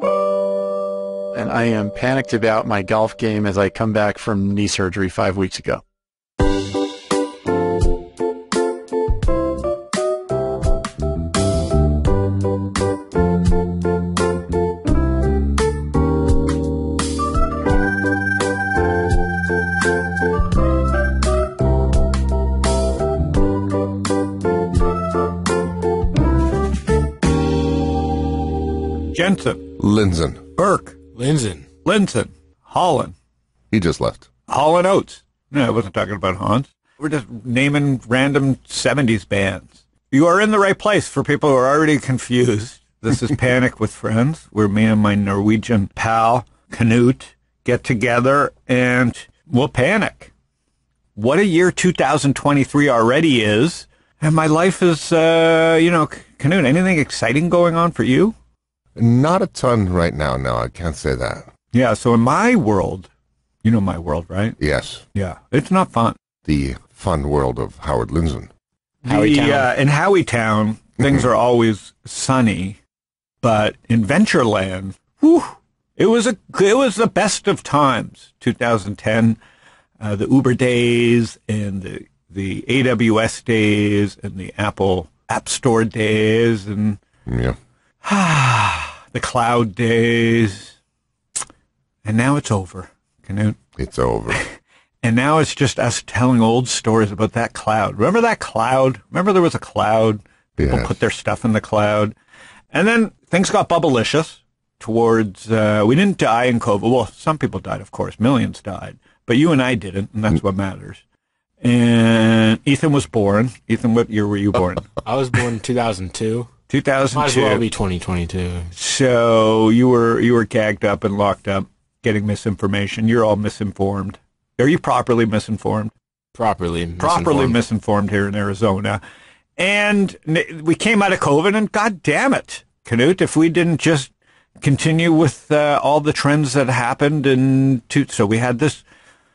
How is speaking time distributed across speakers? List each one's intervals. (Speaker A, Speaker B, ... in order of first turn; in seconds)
Speaker A: 1.3-5.8
Speaker B: 29.1-29.7, 30.6-30.9, 31.8-33.1, 34.5-50.3, 51.1-58.3, 61.7-63.1, 63.6-64.6, 65.1-66.2, 69.0-72.8, 73.4-79.4, 80.0-87.0, 88.0-90.7, 92.0-93.6, 95.0-102.1, 102.7-111.0, 111.6-114.9, 116.7-117.7, 118.7-125.9, 127.0-129.0, 129.6-134.1, 134.6-138.8
Speaker C: 29.8-30.4, 33.7-34.3, 59.0-61.5, 64.6-65.0, 66.4-68.5, 87.2-87.6, 93.8-94.4, 100.6-100.9
Speaker D: 31.1-31.7, 69.1-69.7, 115.0-116.5, 117.1-118.7, 126.3-127.5